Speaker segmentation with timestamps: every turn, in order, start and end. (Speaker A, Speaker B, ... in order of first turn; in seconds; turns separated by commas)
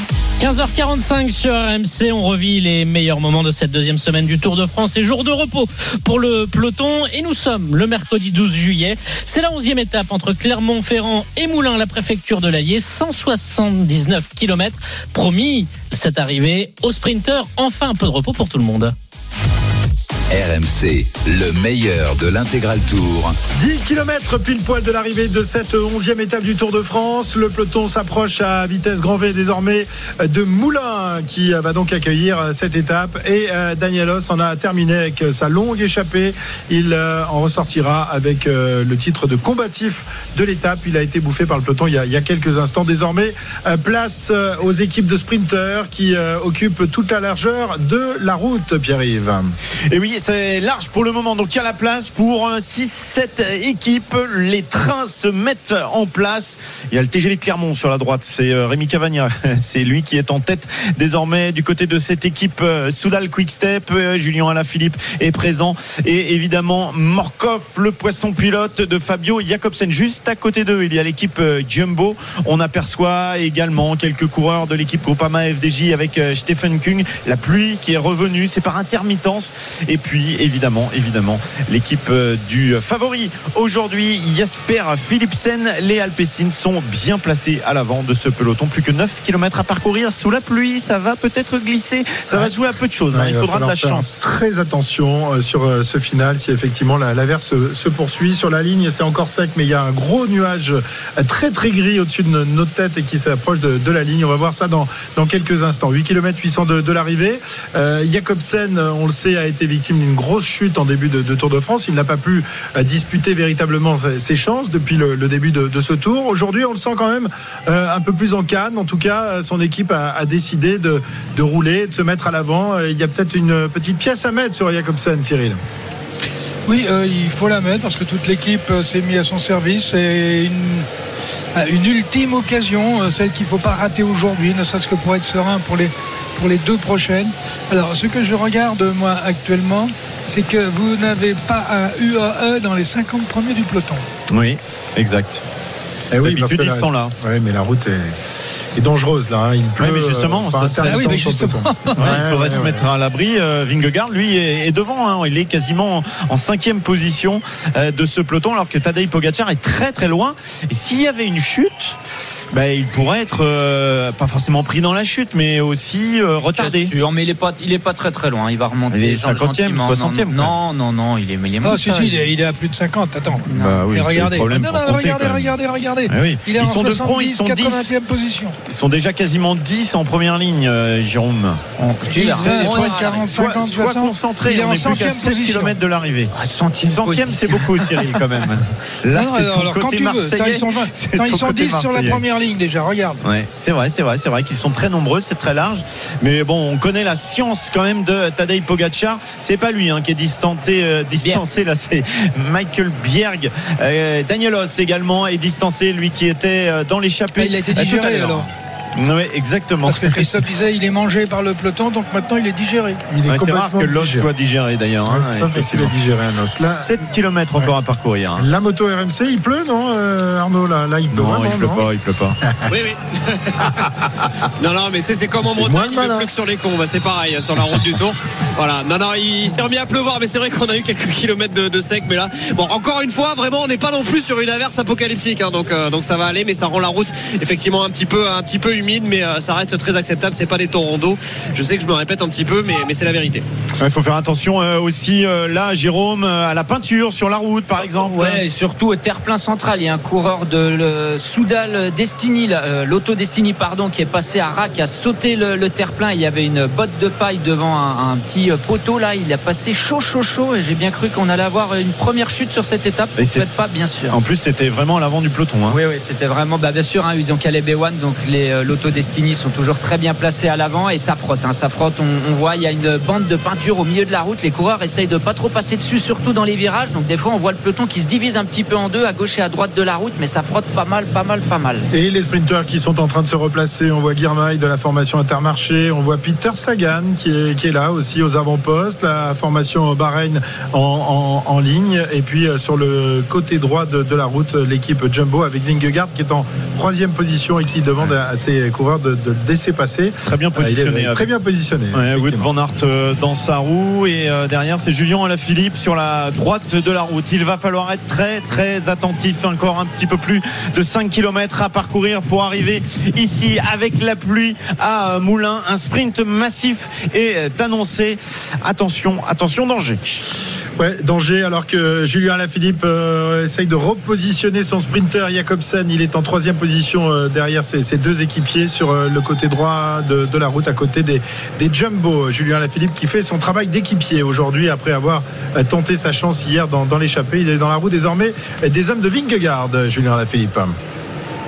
Speaker A: 0.4-18.9, Speaker B: 20.3-23.4, Speaker C: 23.6-49.5, Speaker D: 49.9-94.2, Speaker C: 93.1-125.6, Speaker E: 126.7-130.9, Speaker E: 131.6-144.1, Speaker D: 144.3-145.4, Speaker C: 146.1-148.2, Speaker D: 146.2-147.1, Speaker C: 148.8-152.9, Speaker D: 149.8-151.2, Speaker E: 150.8-152.3, Speaker D: 152.0-162.0, Speaker D: 162.5-166.9, Speaker F: 166.5-172.3, Speaker D: 168.9-170.6, Speaker E: 171.6-178.6, Speaker F: 173.5-173.8, Speaker D: 173.5-175.5, Speaker D: 176.1-177.9, Speaker D: 178.7-186.3, Speaker F: 181.8-183.7, Speaker E: 182.1-185.8, Speaker F: 186.3-188.2, Speaker D: 186.9-192.2, Speaker E: 189.1-193.2, Speaker D: 193.2-210.3, Speaker E: 207.3-208.5, Speaker E: 209.8-213.0, Speaker C: 213.1-214.3, Speaker D: 213.3-215.9, Speaker C: 215.1-216.9, Speaker D: 216.6-218.5, Speaker C: 218.4-221.9, Speaker D: 221.1-222.4, Speaker G: 222.7-224.1, Speaker G: 224.6-243.4, Speaker C: 225.6-226.3, Speaker D: 243.8-248.4, Speaker F: 247.8-264.2, Speaker D: 263.2-263.5, Speaker D: 264.1-265.8, Speaker F: 265.7-281.9, Speaker C: 281.9-302.5, Speaker D: 300.2-301.3, Speaker D: 301.9-320.2, Speaker C: 320.8-340.8